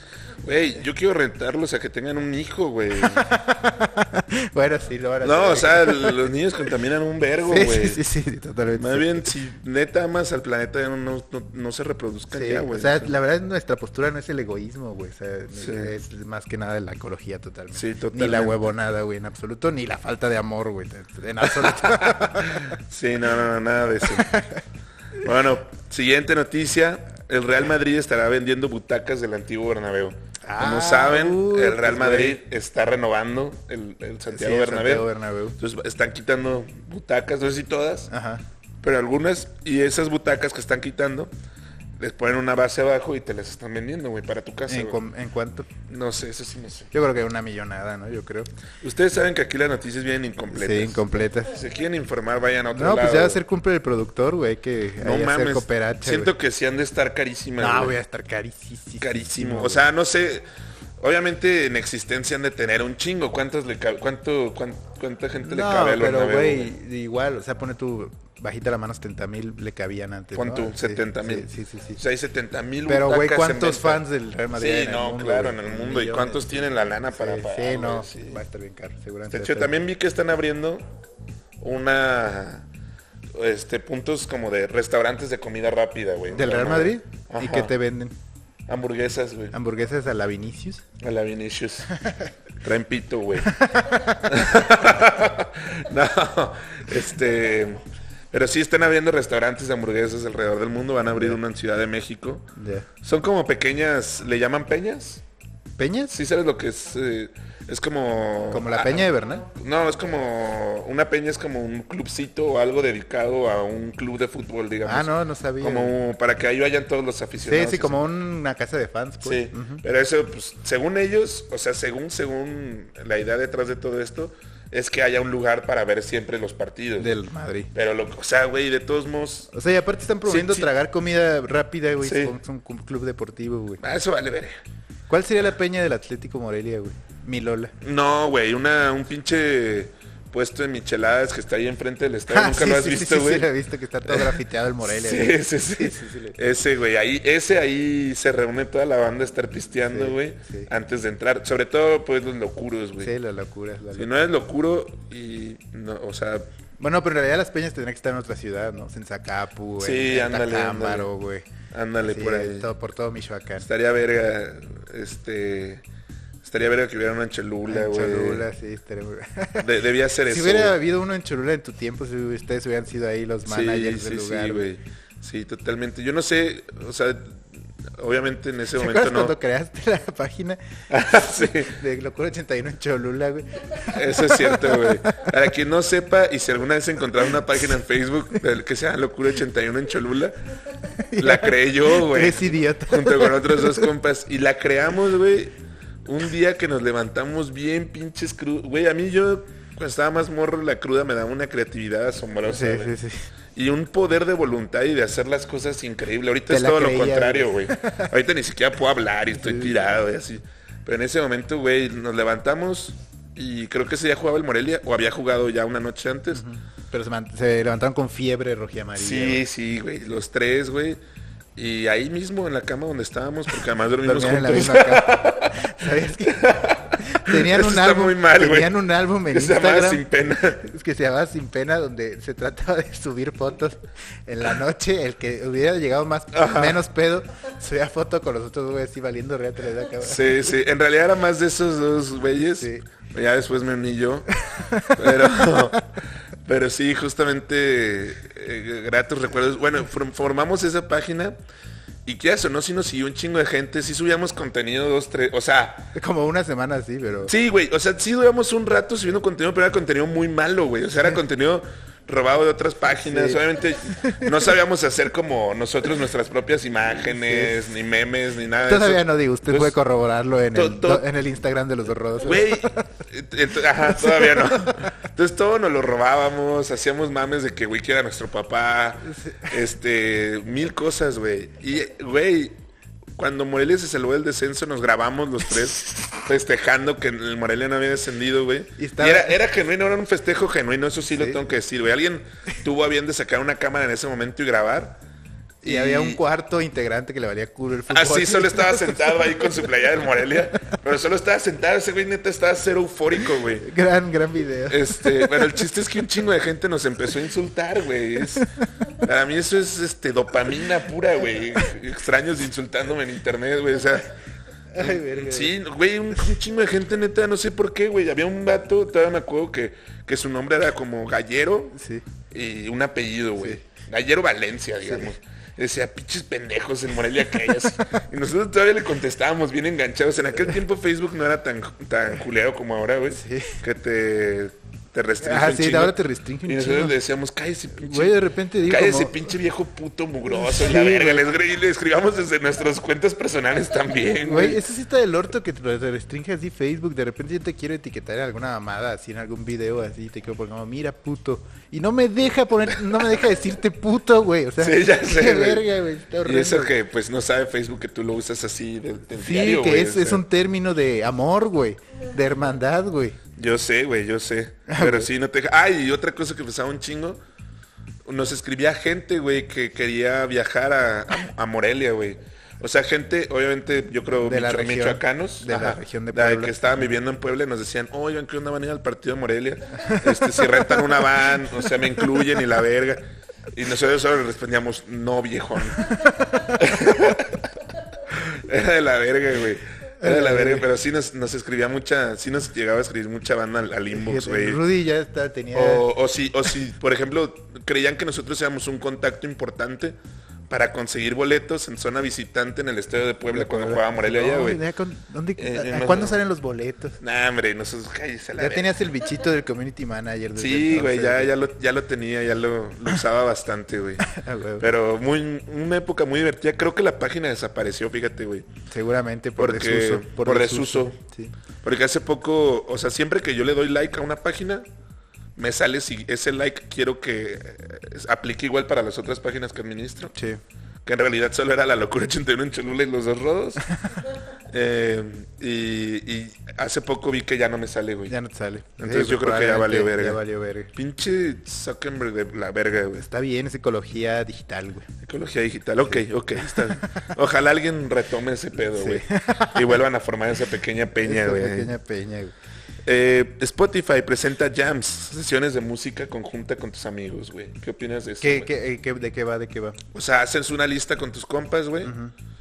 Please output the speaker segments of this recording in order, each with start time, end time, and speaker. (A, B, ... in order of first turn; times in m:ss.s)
0:00.4-0:03.3 A
0:03.0-0:06.2 B
0:05.2-0:08.0 A
0:07.4-0:09.3 B
0:08.8-0:13.1 A
0:12.3-0:22.8 B
0:15.5-0:15.9 A
0:17.7-0:18.6 A
0:21.4-0:24.3 A
0:24.1-0:24.6 B
0:25.2-0:35.1 A
0:30.4-0:32.4 B
0:34.3-0:35.6 B
0:35.6-0:38.1 A
0:38.1-0:38.4 B
0:38.8-0:41.3 A
0:42.0-0:45.0 A
0:44.7-0:45.7 B
0:45.9-0:46.9 A
0:46.9-0:48.5 B
0:48.8-0:53.4 A
0:50.5-0:51.5 B
0:52.7-0:56.3 B
0:55.0-0:58.0 A
0:57.6-0:59.8 B
0:59.0-1:00.4 A
1:01.0-1:06.7 A
1:05.4-1:12.0 B
1:10.3-1:18.4 A
1:12.8-1:19.8 B
1:19.3-1:20.8 A
1:21.6-1:22.6 A
1:23.3-1:27.7 A
1:26.3-1:28.1 B
1:28.7-1:29.5 A
1:29.5-1:30.8 B
1:31.0-1:31.9 A
1:32.6-1:42.5 A
1:33.4-1:34.2 B
1:42.6-1:42.9 B
1:43.0-1:45.2 A
1:45.8-1:46.1 B
1:46.1-1:58.0 A
1:48.5-1:49.4 B
1:54.8-1:55.9 B
1:57.4-1:59.8 B
1:59.2-2:07.1 A
2:07.0-2:07.7 B
2:07.7-2:09.5 A
2:09.5-2:13.8 B
2:10.2-2:10.7 A
2:12.0-2:12.4 A
2:13.8-2:14.6 A
2:15.1-2:17.7 B
2:17.8-2:23.5 A
2:22.3-2:26.4 B
2:24.1-2:33.1 A
2:29.9-2:30.7 B
2:33.0-2:34.1 B
2:34.0-2:36.5 A
2:36.8-2:41.4 B
2:39.8-2:41.1 A
2:41.7-2:42.7 A
2:42.0-2:43.7 B
2:43.6-2:45.8 A
2:46.4-2:48.4 A
2:47.7-2:49.7 B
2:49.6-2:50.8 A
2:50.3-2:54.7 B
2:53.5-2:59.3 A
2:58.8-3:05.3 B
3:00.9-3:01.8 A
3:03.8-3:10.4 A
3:11.0-3:13.9 B
3:11.2-3:15.5 A
3:16.0-3:22.9 A
3:22.5-3:23.2 B
3:23.5-3:36.4 A
3:26.5-3:28.1 B
3:29.4-3:29.8 B
3:36.3-3:39.4 B
3:39.0-3:41.0 A
3:41.6-3:45.6 A
3:44.0-4:00.6 B
3:46.2-3:48.8 A
3:49.3-3:50.6 A
3:56.3-3:56.8 A
4:00.0-4:04.3 A
4:02.6-4:02.8 B
4:04.5-4:05.8 B
4:04.9-4:11.4 A
4:12.0-4:15.9 A
4:15.9-4:17.3 B
4:17.2-4:29.8 A
4:23.0-4:23.4 B
4:24.0-4:24.3 B
4:27.1-4:27.7 B
4:28.6-4:32.9 B
4:30.5-4:31.0 A
4:32.2-4:42.6 A
4:33.9-4:34.9 B
4:39.0-4:39.5 B
4:43.2-4:55.0 A
4:48.8-4:49.4 B
4:55.6-4:59.4 B
4:55.6-4:56.2 A
4:57.9-5:03.7 A
5:03.6-5:05.6 B
5:04.7-5:14.1 A
5:14.7-5:15.5 B
5:14.8-5:21.8 A
5:21.7-5:22.0 B
5:22.3-5:44.6 A
5:33.1-5:33.6 B
5:35.2-5:37.0 B
5:37.8-5:39.3 B
5:40.3-5:41.3 B
5:44.2-5:56.7 B
5:54.6-5:55.6 A
5:56.2-6:00.2 A
5:59.2-6:03.2 B
6:03.4-6:07.2 A
6:04.7-6:05.1 B
6:08.0-6:27.5 A
6:14.2-6:16.5 B
6:26.2-6:26.5 B
6:28.1-6:34.6 A
6:30.0-6:30.7 B
6:33.9-6:35.9 B
6:35.5-6:40.0 A
6:40.5-6:44.6 A
6:43.3-6:47.0 B
6:45.4-6:46.2 A
6:47.0-6:48.7 A
6:48.4-6:51.5 B
6:50.4-6:58.4 A
6:54.0-6:54.6 B
6:58.7-7:01.3 B
6:59.4-7:01.0 A
7:01.6-7:04.6 A
7:05.4-7:10.1 A
7:10.1-7:10.4 B
7:10.8-7:13.6 A
7:14.5-7:18.1 A
7:18.1-7:20.7 B
7:18.8-7:20.2 A
7:20.7-7:23.1 A
7:23.0-7:24.9 B
7:25.0-7:31.7 A
7:25.9-7:27.1 B
7:28.7-7:29.8 B
7:31.0-7:32.3 B
7:32.8-7:38.5 A
7:38.2-7:39.8 B
7:39.9-7:41.9 A
7:41.8-7:42.1 B